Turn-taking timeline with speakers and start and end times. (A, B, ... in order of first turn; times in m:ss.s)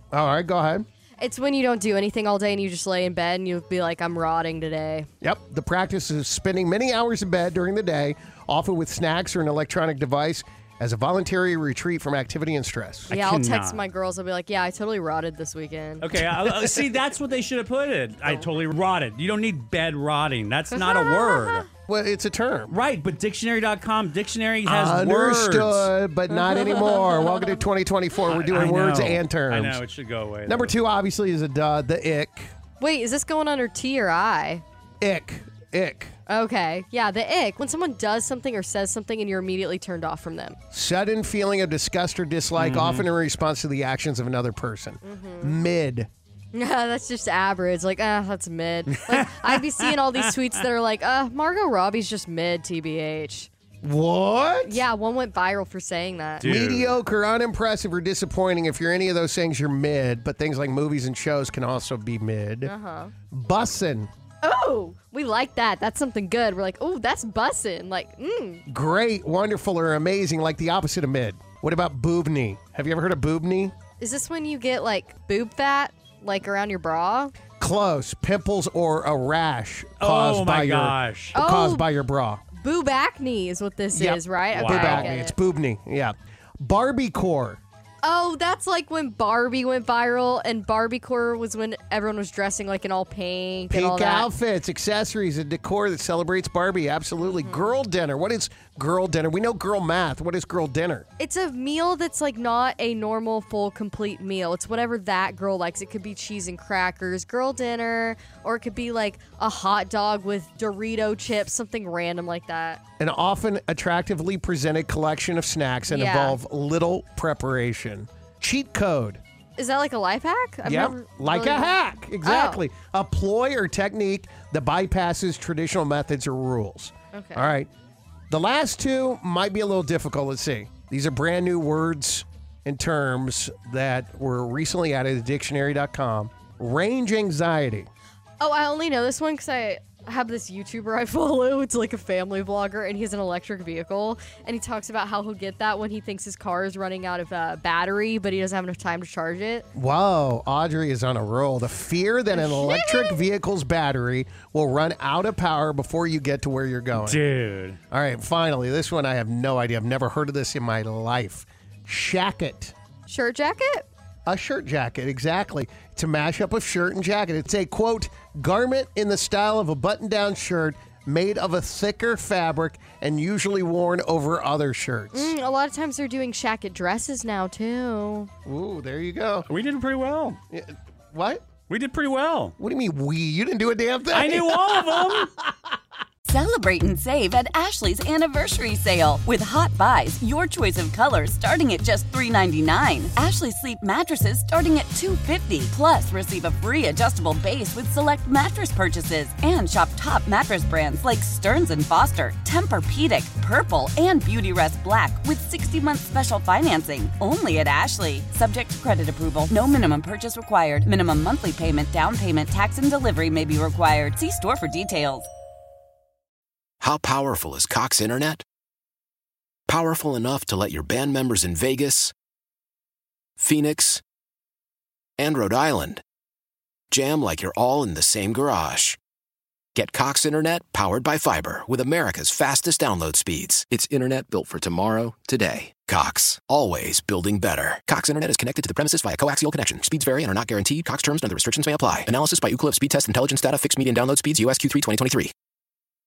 0:00.1-0:00.8 A
0:01.2-0:05.1 B
0:05.2-0:13.1 A
0:13.1-0:16.2 B
0:13.1-0:13.8 C
0:16.0-0:21.6 C
0:20.7-0:21.6 B
0:21.9-0:22.8 A
0:22.7-0:25.9 C
0:24.6-0:29.8 A
0:26.3-0:27.5 B
0:28.3-0:30.7 C
0:30.5-0:32.5 A
0:32.8-0:34.6 B
0:35.0-0:36.1 A
0:36.3-0:40.6 B
0:40.7-0:46.1 A
0:42.6-0:43.1 C
0:45.0-0:45.6 B
0:46.5-0:53.5 B
0:53.8-0:54.8 A
0:54.7-0:56.5 B
0:56.4-1:02.7 A
0:56.4-0:56.9 C
1:02.6-1:03.1 B
1:03.3-1:04.1 A
1:04.4-1:08.6 B
1:08.7-1:13.7 A
1:14.0-1:17.3 B
1:17.6-1:22.4 A
1:20.0-1:21.3 C
1:21.4-1:21.9 B
1:22.6-1:25.4 B
1:23.9-1:27.6 A
1:24.5-1:25.0 C
1:28.0-1:34.3 B
1:33.7-1:41.0 A
1:37.3-1:37.8 B
1:41.2-1:52.8 B
1:53.0-1:59.2 A
1:55.9-1:56.4 B
1:59.6-2:02.6 B
2:00.6-2:07.7 A
2:07.1-2:07.5 B
2:08.3-2:17.9 A
2:18.4-2:29.7 B
2:29.8-2:37.2 A
2:32.3-2:33.2 B
2:37.1-2:37.8 C
2:37.9-2:42.7 A
2:43.1-2:43.9 B
2:44.3-2:55.3 A
2:55.1-2:58.3 B
2:58.4-2:59.5 A
2:59.5-3:00.4 C
3:00.5-3:01.4 A
3:01.7-3:02.5 C
3:02.6-3:05.7 A
3:04.1-3:05.2 C
3:06.3-3:35.3 D
3:36.8-3:38.4 E
3:39.7-3:42.1 E
3:43.4-3:44.0 E
3:45.2-3:46.0 E
3:46.9-3:49.0 E
3:49.8-4:05.3 E